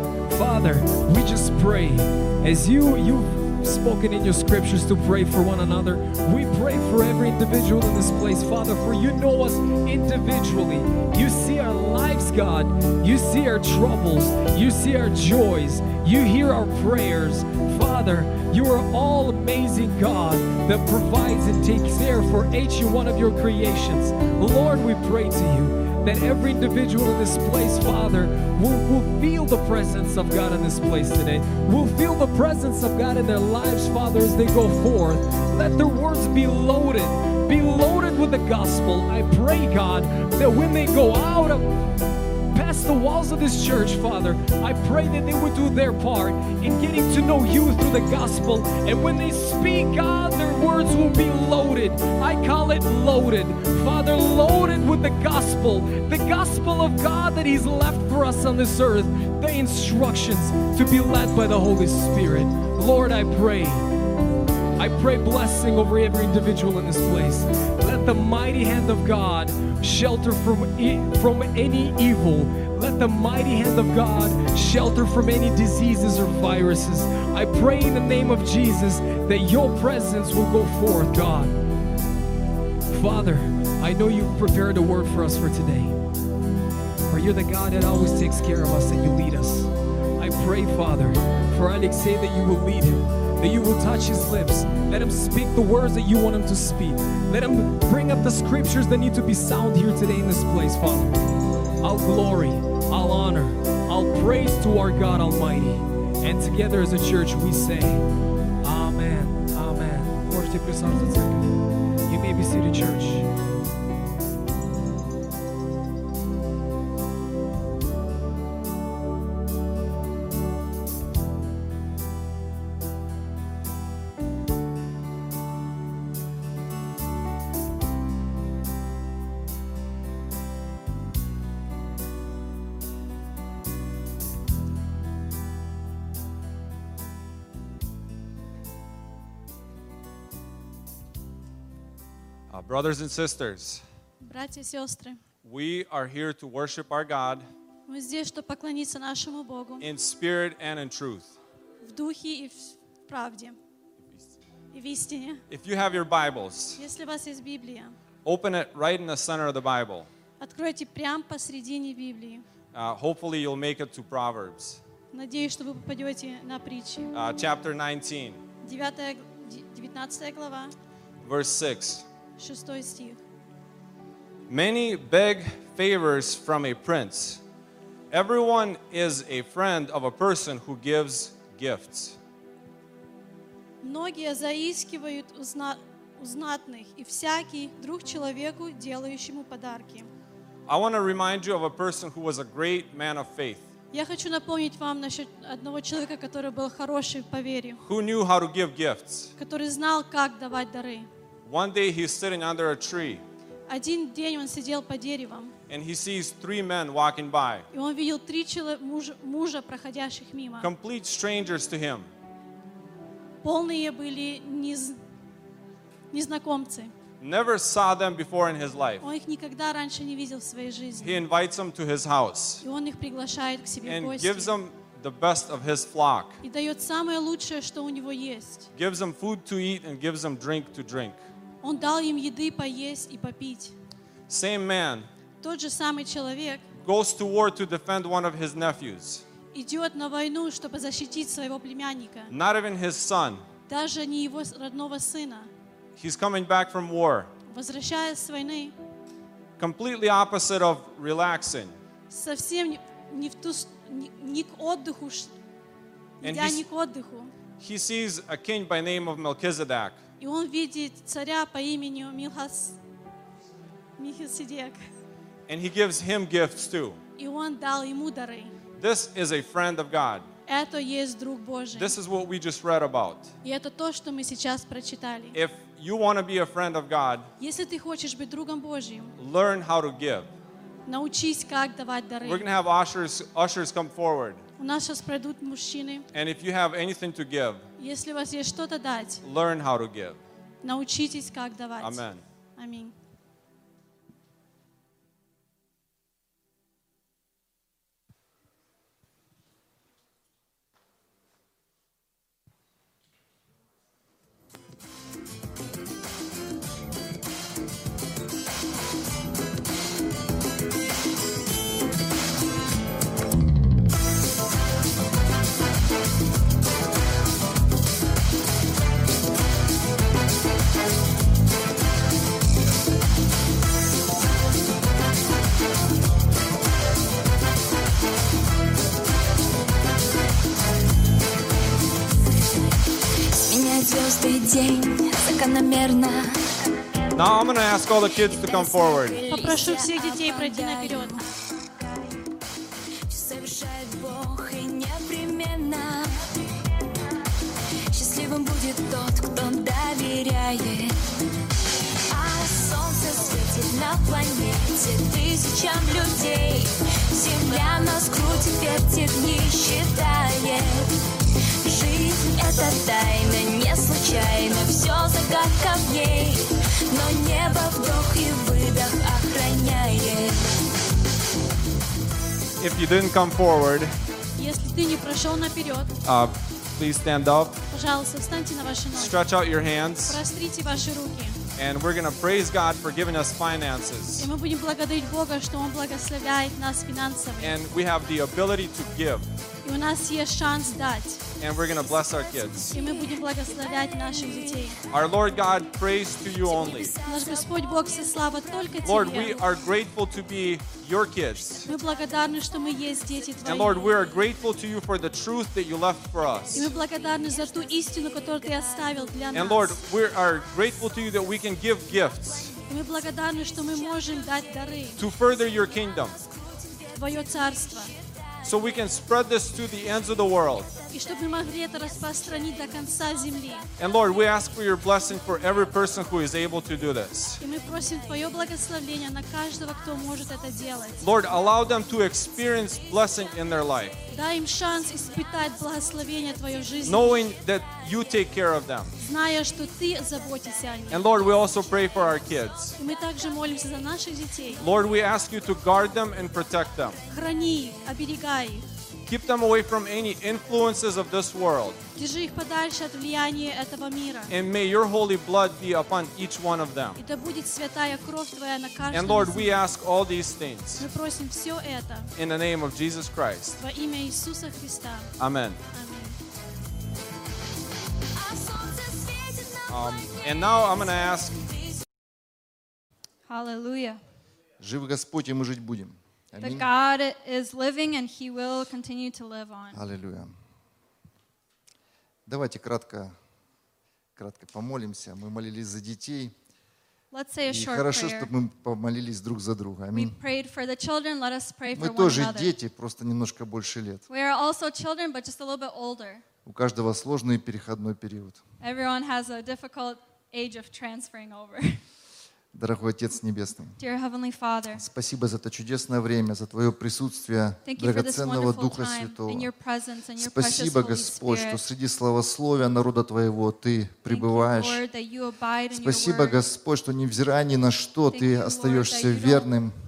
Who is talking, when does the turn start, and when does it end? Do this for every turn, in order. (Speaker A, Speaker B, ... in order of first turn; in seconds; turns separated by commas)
Speaker A: 0.3-41.7, Speaker A: 42.5-63.9, Speaker A: 64.8-81.6, Speaker A: 82.9-86.0, Speaker A: 87.1-101.2, Speaker A: 101.8-108.1, Speaker A: 108.6-111.6, Speaker A: 112.1-113.3, Speaker B: 142.5-143.8, Speaker C: 144.2-145.2, Speaker B: 145.4-147.5, Speaker C: 147.9-149.9, Speaker B: 149.8-151.3, Speaker C: 151.8-153.6, Speaker C: 154.7-155.4, Speaker B: 155.5-156.8, Speaker C: 156.8-157.9, Speaker B: 158.2-160.1, Speaker C: 160.4-162.4, Speaker B: 162.7-164.8, Speaker C: 165.1-167.1, Speaker B: 167.1-168.4, Speaker C: 168.6-170.7, Speaker B: 171.2-172.1, Speaker C: 172.4-173.2, Speaker B: 174.5-177.4, Speaker B: 178.1-182.2, Speaker C: 183.8-190.1, Speaker B: 190.7-193.7, Speaker C: 193.9-197.8, Speaker B: 197.8-199.3, Speaker C: 199.4-201.1, Speaker B: 201.5-203.2, Speaker C: 203.7-205.5, Speaker B: 205.7-207.7, Speaker C: 207.7-210.7, Speaker B: 210.6-212.1, Speaker C: 213.4-215.0, Speaker C: 216.1-216.9, Speaker B: 217.2-219.0, Speaker C: 219.0-221.3, Speaker B: 221.0-222.6, Speaker C: 222.6-224.6, Speaker B: 223.8-226.4, Speaker C: 226.4-228.7, Speaker B: 228.7-231.2, Speaker C: 231.6-233.7, Speaker B: 234.3-235.1, Speaker C: 235.4-236.7, Speaker B: 236.8-239.2, Speaker C: 239.5-242.3, Speaker B: 242.3-243.4, Speaker C: 243.7-245.5, Speaker B: 246.0-247.3, Speaker C: 247.5-248.8, Speaker B: 249.6-251.8, Speaker C: 252.1-255.3, Speaker B: 256.2-256.6, Speaker C: 256.2-257.3, Speaker B: 257.6-260.0, Speaker C: 260.2-262.8, Speaker C: 264.0-264.8, Speaker B: 265.5-267.0, Speaker C: 267.2-268.5, Speaker B: 268.8-270.3, Speaker C: 270.5-272.0, Speaker B: 271.8-273.3, Speaker C: 273.4-275.4, Speaker B: 275.4-277.3, Speaker C: 277.4-279.1, Speaker B: 279.2-280.3, Speaker C: 280.9-282.5, Speaker B: 282.2-284.4, Speaker C: 284.6-286.1, Speaker B: 286.1-287.6, Speaker C: 287.8-289.2, Speaker B: 289.2-290.2, Speaker C: 290.6-292.1, Speaker B: 291.8-292.2, Speaker C: 292.6-292.9, Speaker D: 333.3-336.8, Speaker B: 337.1-339.2, Speaker D: 338.2-341.2, Speaker C: 339.3-341.2, Speaker D: 343.1-346.2, Speaker D: 347.9-351.0, Speaker D: 352.1-360.9, Speaker D: 361.6-370.4, Speaker B: 372.6-373.9, Speaker C: 374.4-375.9, Speaker B: 376.1-377.6, Speaker C: 377.7-379.3, Speaker B: 378.9-380.2, Speaker C: 380.0-381.4, Speaker B: 381.6-384.3, Speaker C: 384.2-387.6, Speaker B: 387.4-389.3, Speaker C: 389.6-391.3, Speaker B: 391.4-392.8, Speaker D: 391.9-394.8, Speaker C: 392.7-394.8, Speaker B: 394.9-397.0, Speaker D: 396.4-399.5, Speaker C: 397.0-399.5, Speaker B: 398.8-401.7, Speaker C: 401.7-404.1, Speaker B: 403.4-406.7, Speaker C: 406.5-409.8, Speaker D: 406.6-409.5, Speaker B: 409.3-412.5, Speaker D: 412.1-412.5, Speaker C: 412.7-415.1, Speaker D: 413.4-418.8, Speaker B: 415.0-416.2, Speaker C: 416.9-417.9, Speaker B: 418.4-420.7, Speaker D: 420.7-423.0, Speaker C: 420.9-423.7, Speaker B: 423.8-427.4, Speaker C: 427.4-431.1, Speaker B: 431.0-434.0, Speaker C: 434.1-437.2, Speaker B: 436.9-438.9, Speaker C: 439.0-441.1, Speaker B: 440.9-442.8, Speaker C: 442.8-444.6, Speaker B: 444.6-447.0, Speaker C: 447.1-448.7, Speaker B: 449.1-451.8, Speaker C: 452.0-454.3, Speaker B: 454.3-457.0, Speaker C: 457.0-459.6, Speaker B: 458.9-460.9, Speaker C: 460.8-462.1, Speaker B: 462.2-463.6, Speaker C: 463.6-465.1, Speaker B: 465.2-465.6, Speaker C: 465.7-466.2, Speaker D: 468.2-471.8, Speaker B: 469.7-471.4, Speaker E: 473.3-474.0, Speaker F: 474.6-476.7, Speaker E: 476.4-479.8, Speaker F: 479.7-480.3, Speaker F: 482.3-483.1, Speaker F: 484.2-486.3, Speaker E: 487.1-488.3, Speaker F: 487.4-490.2, Speaker E: 489.9-492.5, Speaker F: 491.7-494.0, Speaker E: 494.1-496.2, Speaker F: 496.4-498.4, Speaker E: 498.6-501.8, Speaker F: 502.5-503.8, Speaker E: 503.8-504.8, Speaker F: 504.8-509.5, Speaker E: 507.6-511.6, Speaker F: 510.2-514.8, Speaker E: 514.1-516.4, Speaker F: 515.7-519.8, Speaker E: 518.1-519.5